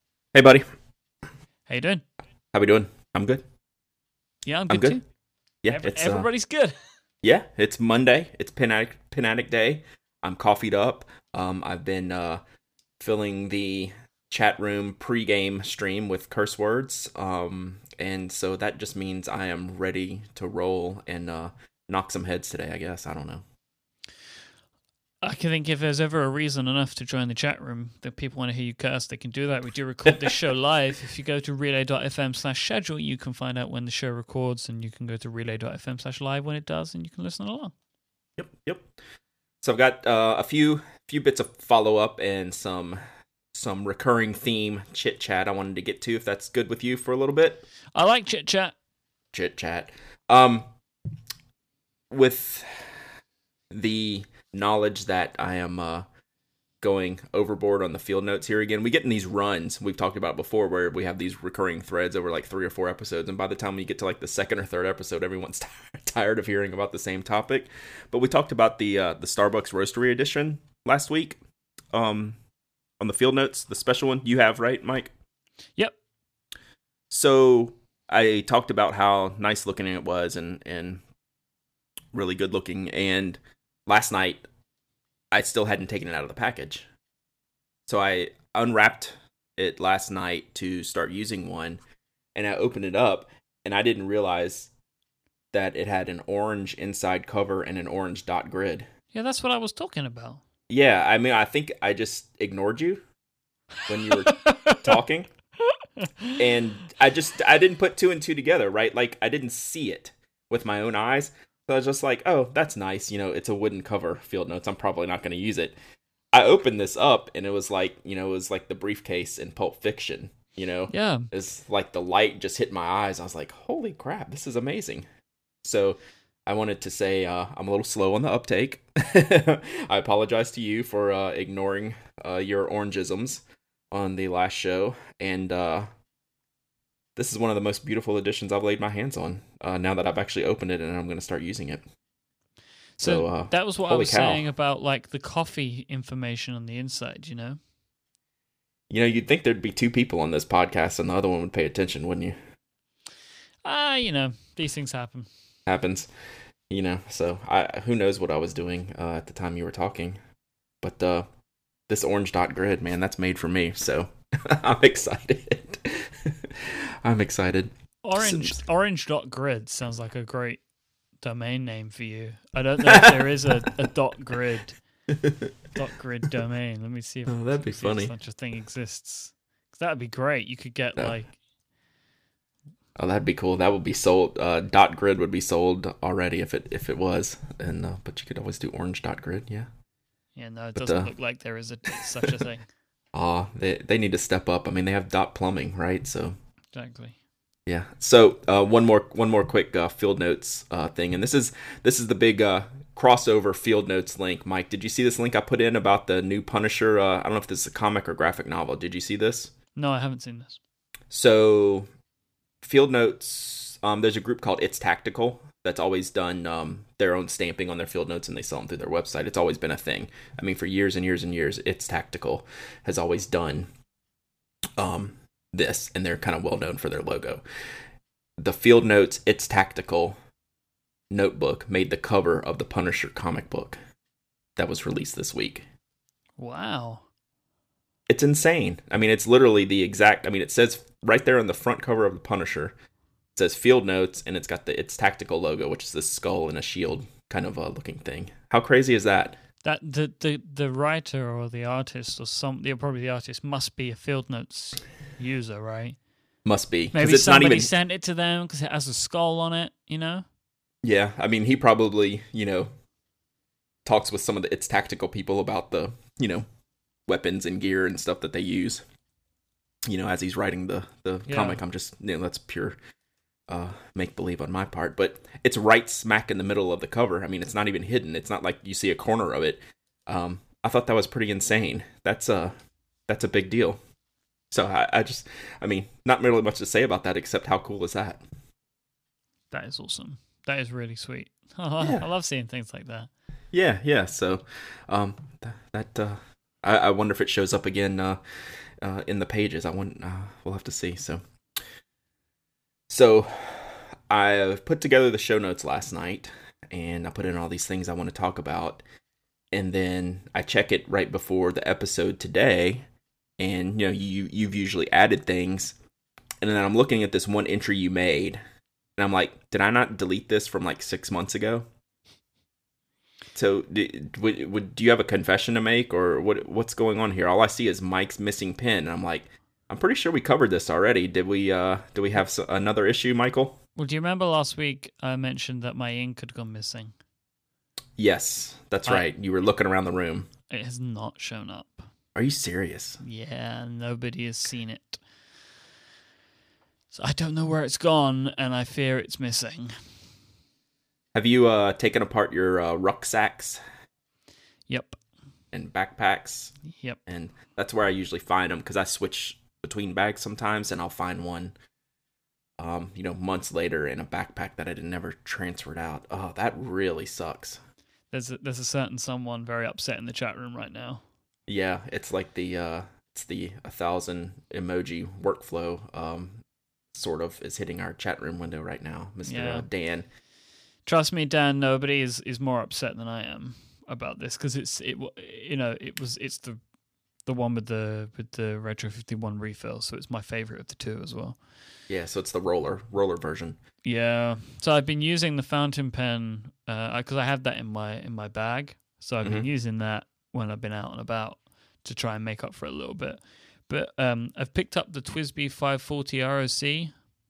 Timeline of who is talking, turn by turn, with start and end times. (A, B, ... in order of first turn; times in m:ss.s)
0:00.3-0:00.6 A
0:01.7-0:02.0 B
0:02.5-0:03.4 A
0:04.4-0:05.0 B
0:04.7-0:05.0 A
0:05.6-0:06.3 A
0:05.7-0:06.8 B
0:07.2-0:12.4 A
0:13.0-0:23.4 A
0:25.2-0:37.7 B
0:38.4-0:38.9 A
0:39.6-0:43.0 A
0:43.5-0:47.6 A
0:47.9-0:48.7 B
0:49.3-0:50.7 A
0:52.1-0:53.0 A
0:53.7-0:56.0 A
0:56.8-1:11.4 A
1:11.9-1:12.4 A
1:13.0-1:15.1 A
1:17.1-1:21.0 A
1:22.1-1:24.4 A
1:25.3-1:26.9 A
1:27.8-1:31.8 A
1:32.3-1:34.7 A
1:35.5-1:38.9 A
1:39.1-1:40.4 B
1:40.7-1:43.0 A
1:43.9-1:45.3 A
1:44.1-1:45.0 B
1:45.8-1:46.4 B
1:46.4-1:55.8 A
1:56.3-2:05.0 A
2:00.9-2:01.3 B
2:05.6-2:15.9 A
2:17.2-2:21.8 A
2:23.0-2:27.6 B
2:23.0-2:24.5 A
2:28.9-2:32.4 A
2:33.6-2:35.3 B
2:35.6-2:36.1 A
2:36.7-2:40.2 A
2:40.8-2:41.2 A
2:41.9-2:48.6 A
2:48.0-2:50.6 B
2:51.2-2:54.8 B
2:52.8-2:53.5 A
2:55.1-2:55.5 A
2:55.7-3:01.3 B
2:57.3-2:58.1 A
3:03.0-3:09.7 A
3:10.4-3:12.6 B
3:10.8-3:11.1 A
3:13.1-3:16.4 A
3:16.7-3:17.2 B
3:17.7-3:29.5 A
3:29.8-3:30.6 B
3:31.1-3:31.8 A
3:32.6-3:43.7 A
3:44.8-3:47.4 A
3:48.4-3:50.2 A
3:51.1-3:53.8 A
3:54.6-3:55.6 A
3:56.4-3:57.0 B
3:58.1-4:02.7 A
4:03.3-4:09.4 A
4:09.6-4:16.0 B
4:16.4-4:17.7 A
4:16.9-4:20.2 B
4:20.8-4:22.7 A
4:23.8-4:26.4 A
4:27.1-4:28.8 A
4:29.9-4:32.8 A
4:31.3-4:31.6 B
4:33.5-4:42.5 A
4:43.1-4:43.8 A
4:44.5-4:48.2 A
4:49.5-4:53.1 B
4:53.5-4:58.2 A
4:58.8-5:01.2 A
5:02.9-5:08.8 A
5:09.5-5:12.8 A
5:13.4-5:15.8 A
5:16.4-5:18.4 A
5:19.0-5:21.7 A
5:23.3-5:33.6 A
5:33.8-5:36.9 B
5:38.0-5:40.3 A
5:40.5-5:41.9 B
5:42.1-5:43.0 A
5:43.0-5:45.0 B
5:46.9-5:49.8 B
5:51.1-5:53.6 A
5:54.7-5:55.0 B
5:55.5-5:56.5 A
5:56.7-5:57.0 B
5:57.1-6:01.5 A
6:02.6-6:07.6 A
6:08.1-6:11.0 B
6:11.5-6:20.1 A
6:19.2-6:19.6 B
6:20.8-6:26.6 B
6:27.2-6:31.4 B
6:31.9-6:33.6 A
6:33.8-6:47.0 B